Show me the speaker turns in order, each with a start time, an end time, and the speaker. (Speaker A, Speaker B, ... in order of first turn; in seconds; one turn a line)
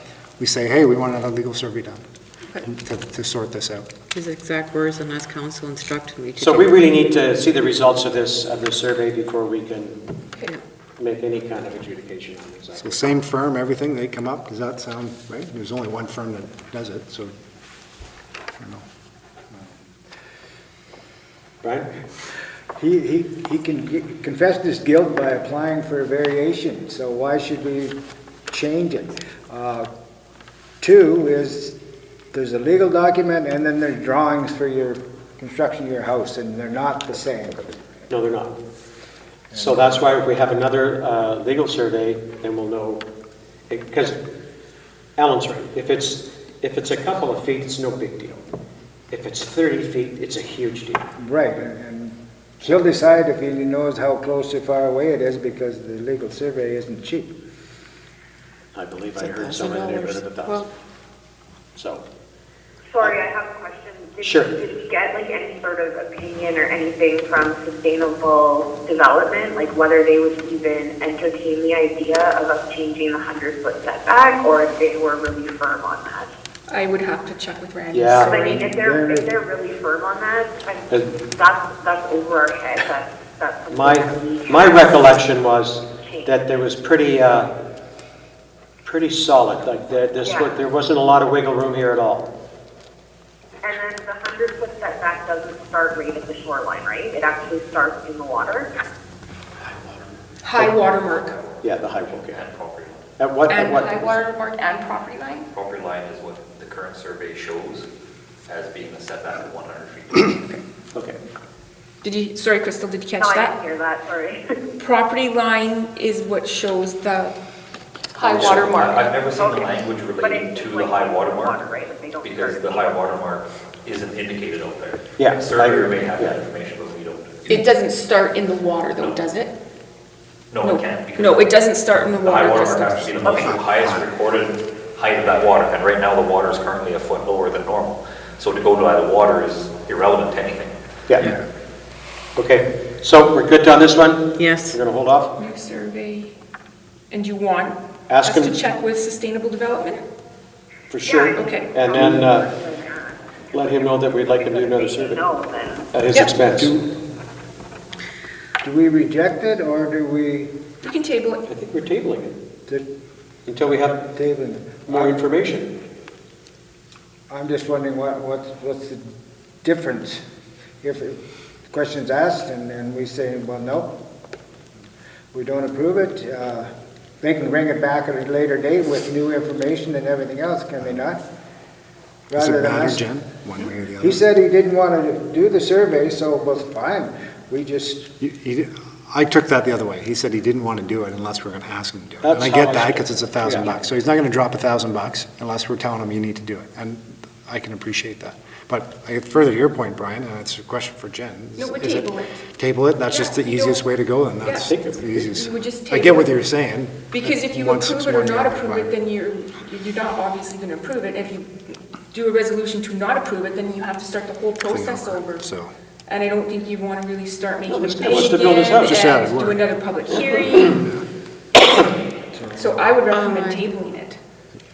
Speaker A: 0.4-2.0
Speaker A: 2.6-3.9
Speaker B: 4.1-6.9
Speaker C: 6.4-10.0
Speaker C: 11.0-13.1
Speaker A: 12.8-17.3
Speaker A: 18.6-18.8
Speaker C: 21.6-21.9
Speaker D: 22.8-28.0
Speaker D: 28.5-29.9
Speaker D: 30.8-31.8
Speaker D: 32.3-37.7
Speaker C: 38.1-38.6
Speaker D: 39.5-40.0
Speaker C: 39.5-43.0
Speaker C: 43.7-44.2
Speaker C: 45.2-48.4
Speaker C: 49.1-51.0
Speaker D: 51.2-57.3
Speaker C: 58.7-60.7
Speaker B: 59.2-60.7
Speaker C: 61.8-62.0
Speaker E: 62.9-76.3
Speaker C: 64.2-64.6
Speaker F: 76.7-78.7
Speaker C: 77.9-78.6
Speaker E: 78.3-85.2
Speaker D: 78.7-79.3
Speaker C: 80.9-81.2
Speaker C: 83.7-87.6
Speaker E: 86.0-86.4
Speaker C: 88.8-92.3
Speaker E: 90.2-90.6
Speaker E: 93.6-98.7
Speaker C: 99.6-100.7
Speaker F: 100.4-101.4
Speaker G: 100.7-103.2
Speaker C: 101.6-102.4
Speaker C: 103.2-104.2
Speaker F: 103.5-105.5
Speaker G: 105.5-107.9
Speaker G: 108.5-110.4
Speaker C: 110.9-111.2
Speaker F: 112.0-113.6
Speaker E: 113.2-114.6
Speaker F: 114.8-117.4
Speaker F: 118.1-119.2
Speaker G: 118.2-121.6
Speaker C: 118.3-118.7
Speaker E: 119.3-122.8
Speaker G: 122.2-127.7
Speaker C: 125.2-126.4
Speaker F: 127.5-129.6
Speaker G: 129.0-129.2
Speaker G: 130.5-140.8
Speaker F: 130.6-133.5
Speaker A: 133.4-134.0
Speaker C: 142.4-145.3
Speaker B: 144.4-144.8
Speaker F: 145.4-146.4
Speaker F: 147.1-150.0
Speaker C: 148.1-148.6
Speaker C: 150.9-152.5
Speaker E: 151.0-155.9
Speaker F: 151.3-151.8
Speaker C: 153.5-155.3
Speaker C: 155.9-156.9
Speaker D: 158.6-160.5
Speaker F: 160.8-161.5
Speaker C: 161.5-162.4
Speaker C: 163.5-164.1
Speaker D: 164.1-165.2
Speaker C: 164.9-165.7
Speaker D: 167.3-169.0
Speaker D: 169.6-170.2
Speaker D: 170.8-174.0
Speaker D: 175.3-176.7
Speaker D: 177.2-181.2
Speaker D: 182.3-183.1
Speaker A: 182.4-184.2
Speaker D: 184.0-188.1
Speaker A: 188.2-209.0
Speaker C: 192.2-193.7
Speaker F: 201.6-202.4
Speaker F: 203.0-203.9
Speaker F: 204.4-206.4
Speaker C: 204.6-205.4
Speaker F: 207.1-215.5
Speaker A: 214.7-215.7
Speaker F: 216.1-220.8
Speaker C: 217.7-219.1
Speaker A: 218.7-221.1
Speaker C: 220.2-220.6
Speaker D: 222.3-222.7
Speaker F: 222.5-224.2
Speaker B: 223.1-223.7